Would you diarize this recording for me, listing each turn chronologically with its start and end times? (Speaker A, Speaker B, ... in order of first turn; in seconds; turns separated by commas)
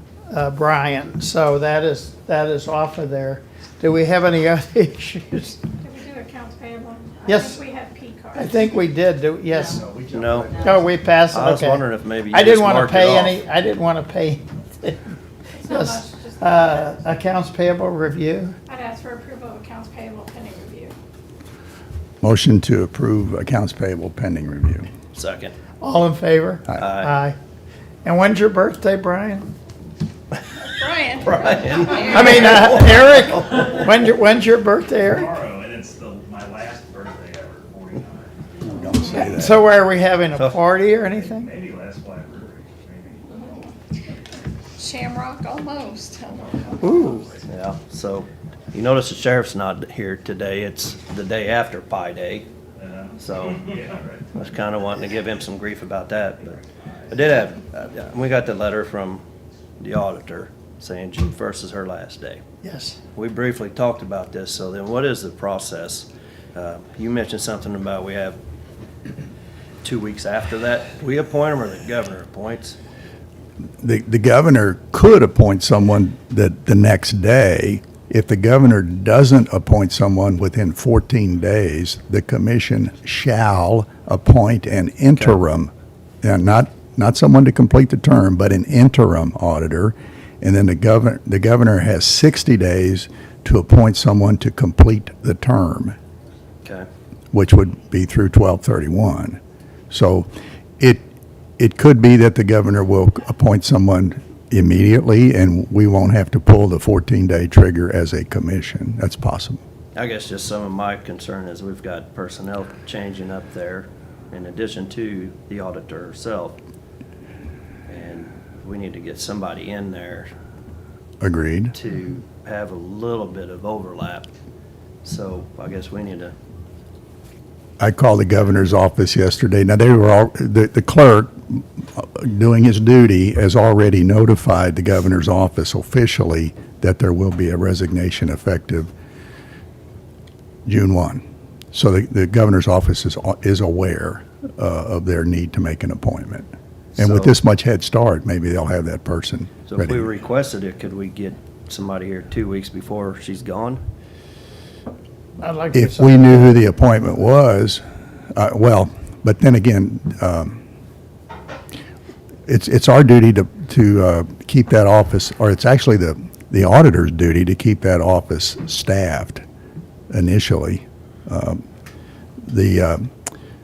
Speaker A: 0.3-5.6, Speaker B: 5.8-8.6, Speaker A: 7.3-7.6, Speaker A: 8.3-10.0, Speaker C: 10.1-10.6, Speaker A: 10.5-15.0, Speaker C: 11.3-13.4, Speaker B: 15.6-17.0, Speaker A: 15.7-18.6, Speaker B: 18.7-20.9, Speaker D: 22.2-24.9, Speaker C: 25.1-25.5, Speaker A: 25.8-27.4, Speaker C: 26.8-27.1, Speaker A: 28.1-29.5, Speaker B: 30.6-32.6, Speaker C: 31.2-33.2, Speaker A: 32.0-35.3, Speaker E: 35.0-39.3, Speaker D: 38.6-39.6, Speaker A: 39.2-41.5, Speaker C: 40.3-40.6, Speaker E: 41.0-43.7, Speaker B: 43.3-43.6, Speaker B: 44.8-47.2, Speaker E: 46.3-47.5, Speaker A: 46.8-47.3, Speaker C: 47.5-52.5, Speaker E: 52.8-54.5, Speaker C: 53.2-53.7, Speaker C: 54.4-59.2, Speaker E: 56.8-57.2, Speaker C: 59.8-62.4, Speaker A: 62.6-63.0, Speaker C: 63.1-68.4, Speaker C: 69.8-72.8, Speaker D: 73.8-85.7, Speaker D: 86.2-96.0, Speaker D: 97.3-99.4, Speaker D: 99.9-100.3, Speaker D: 100.8-101.1, Speaker D: 101.6-109.6, Speaker C: 110.0-116.6, Speaker C: 117.9-120.3, Speaker D: 121.2-121.8, Speaker C: 121.7-124.3, Speaker C: 125.0-126.3, Speaker D: 127.8-138.9, Speaker D: 140.7-150.1, Speaker C: 147.0-147.3, Speaker C: 149.7-153.8, Speaker A: 155.4-156.6, Speaker D: 155.7-157.8, Speaker D: 158.3-160.6, Speaker D: 162.5-169.4, Speaker D: 170.1-171.6, Speaker D: 172.4-173.1